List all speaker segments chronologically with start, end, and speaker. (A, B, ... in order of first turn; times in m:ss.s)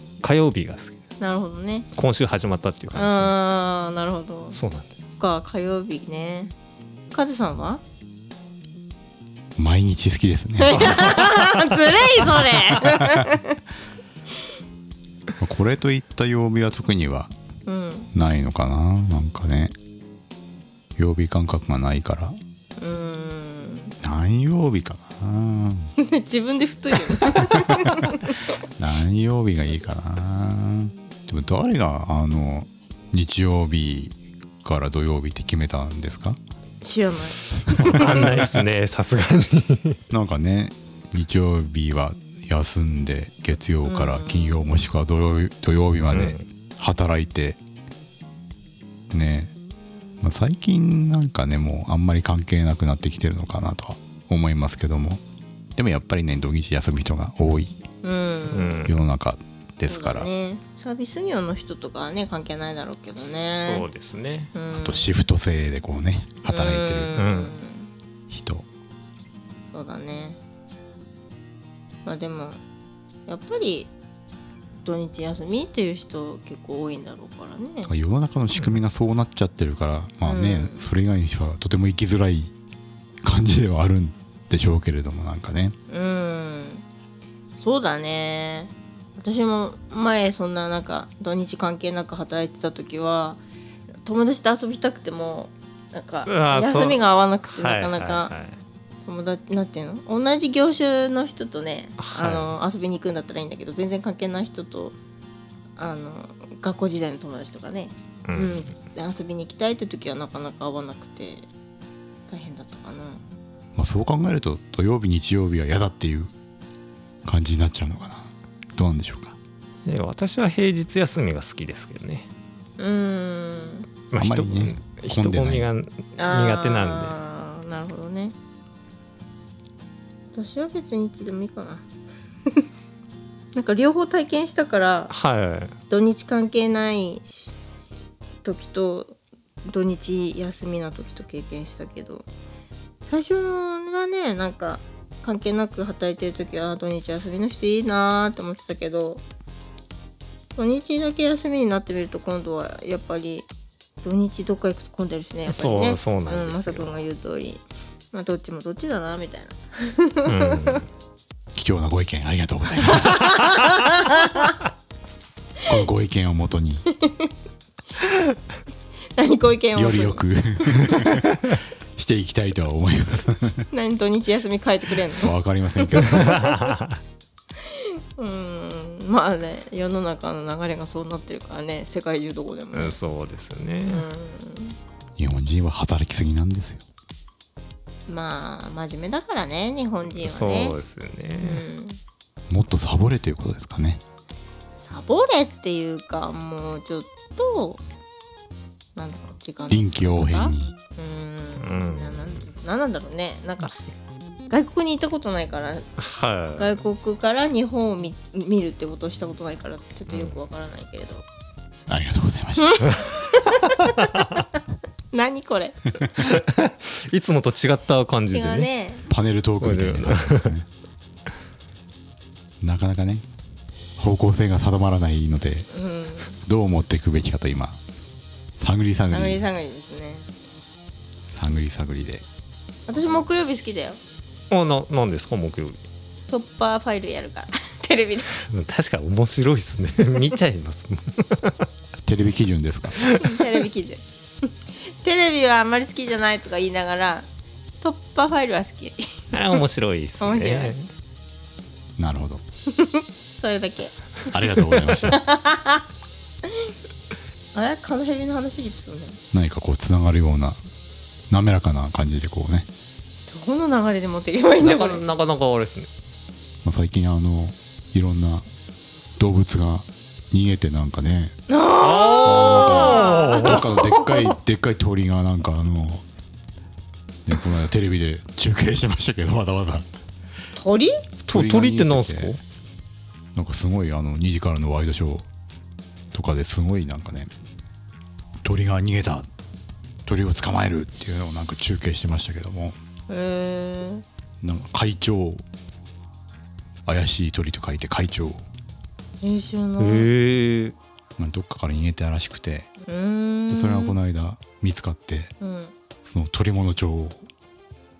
0:00.2-0:01.0 A
0:01.2-0:01.9 B
0:01.9-0:03.4 A
0:03.0-0:04.6 B
0:04.5-0:04.9 A
0:05.2-0:06.5 B
0:07.1-0:07.8 B
0:09.6-0:11.1 C
0:10.6-0:13.6 B
0:10.7-0:12.3 A
0:12.8-0:13.3 C
0:15.4-0:17.3 C
0:17.6-0:18.1 B
0:18.1-0:19.7 C
0:21.0-0:22.4 C
0:22.8-0:24.0 B
0:24.0-0:25.9 C
0:26.0-0:28.4 B
0:27.4-0:28.1 C
0:28.8-0:36.4 C
0:36.8-0:38.3 B
0:37.7-0:38.3 C
0:37.8-0:40.0 A
0:40.1-0:47.6 C
0:43.8-0:44.7 B
0:46.1-0:46.4 A
0:49.1-0:49.5 C
0:50.2-0:55.2 C
0:55.8-0:57.8 C
0:58.0-0:58.8 B
0:58.5-0:58.9 A
0:58.8-1:00.3 C
0:59.9-1:03.8 B
1:03.5-1:04.5 A
1:04.5-1:05.1 B
1:04.7-1:07.2 C
1:06.5-1:07.9 B
1:07.2-1:07.5 A
1:08.3-1:08.6 C
1:09.7-1:10.4 B
1:12.0-1:12.6 B
1:13.3-1:13.9 B
1:14.8-1:17.9 B
1:17.8-1:22.5 C
1:20.2-1:20.8 B
1:23.2-1:25.8 C
1:25.9-1:26.8 B
1:27.6-1:33.4 B
1:34.0-1:38.3 B
1:36.3-1:38.6 A
1:39.0-1:45.0 B
1:42.0-1:42.5 A
1:45.8-1:51.5 B
1:48.2-1:48.6 A
1:52.3-1:53.2 B
1:53.7-1:56.3 C
1:57.2-1:59.4 C
1:59.8-2:02.3 A
2:02.8-2:03.9 B
2:04.1-2:07.1 A
2:04.2-2:05.7 C
2:06.2-2:08.3 B
2:10.3-2:11.8 B
2:13.5-2:15.1 B
2:15.1-2:15.7 A
2:15.9-2:17.6 B
2:18.4-2:22.3 B
2:23.0-2:29.2 B
2:30.6-2:33.5 B
2:34.0-2:40.8 B
2:35.5-2:37.0 A
2:40.2-2:40.8 A
2:41.5-2:43.4 C
2:42.9-2:44.5 B
2:45.6-2:46.8 C
2:46.9-2:47.3 B
2:49.2-2:50.2 B
2:49.7-2:51.4 C
2:51.9-2:53.7 C
2:53.7-2:56.7 B
2:55.2-2:56.5 C
2:56.2-2:57.0 A
2:57.6-3:03.0 B
3:02.7-3:04.1 A
3:03.9-3:04.8 B
3:05.2-3:06.8 C
3:08.1-3:10.8 B
3:10.2-3:11.6 A
3:11.4-3:12.0 B
3:12.5-3:14.0 C
3:14.8-3:17.8 B
3:19.0-3:23.8 B
3:19.7-3:20.7 C
3:21.6-3:22.4 A
3:24.5-3:25.9 B
3:26.0-3:26.8 A
3:26.6-3:31.2 B
3:30.1-3:30.4 A
3:31.9-3:33.0 C
3:32.6-3:34.6 B
3:35.1-3:35.8 B
3:36.2-3:38.7 A
3:38.3-3:39.0 B
3:39.1-3:40.7 C
3:39.6-3:40.5 A
3:42.6-3:43.2 C
3:44.0-3:45.7 C
3:45.7-3:46.4 B
3:46.4-3:47.8 C
3:48.6-3:49.4 C
3:49.1-3:50.3 B
3:51.3-3:52.2 C
3:52.9-3:54.0 B
3:54.5-3:55.8 A
3:56.3-3:58.4 B
3:58.4-4:01.7 A
4:02.0-4:03.0 C
4:03.0-4:03.6 A
4:03.1-4:07.3 B
4:07.8-4:09.2 B
4:09.3-4:10.8 A
4:10.2-4:10.7 B
4:12.0-4:12.4 C
4:12.7-4:13.9 B
4:14.3-4:15.1 C
4:14.8-4:15.0 A
4:15.1-4:15.8 B
4:17.5-4:19.2 B
4:19.3-4:20.6 C
4:21.3-4:22.7 C
4:23.3-4:25.0 B
4:24.6-4:25.9 A
4:26.6-4:28.5 C
4:29.2-4:31.3 C
4:31.5-4:33.6 B
4:31.8-4:34.3 A
4:32.2-4:36.0 C
4:37.2-4:39.8 C
4:40.5-4:41.0 B
4:41.3-4:42.3 C
4:41.3-4:42.4 A
4:43.3-4:45.3 C
4:46.1-4:47.3 C
4:48.4-4:49.3 C
4:50.0-4:52.8 C
4:53.1-4:54.0 B
4:54.4-4:55.4 C
4:56.8-4:58.4 C
4:59.2-5:00.1 B
4:59.8-5:00.8 A
5:01.2-5:02.7 C
5:02.9-5:04.0 B
5:03.5-5:05.3 C
5:05.4-5:05.7 B
5:06.0-5:07.2 C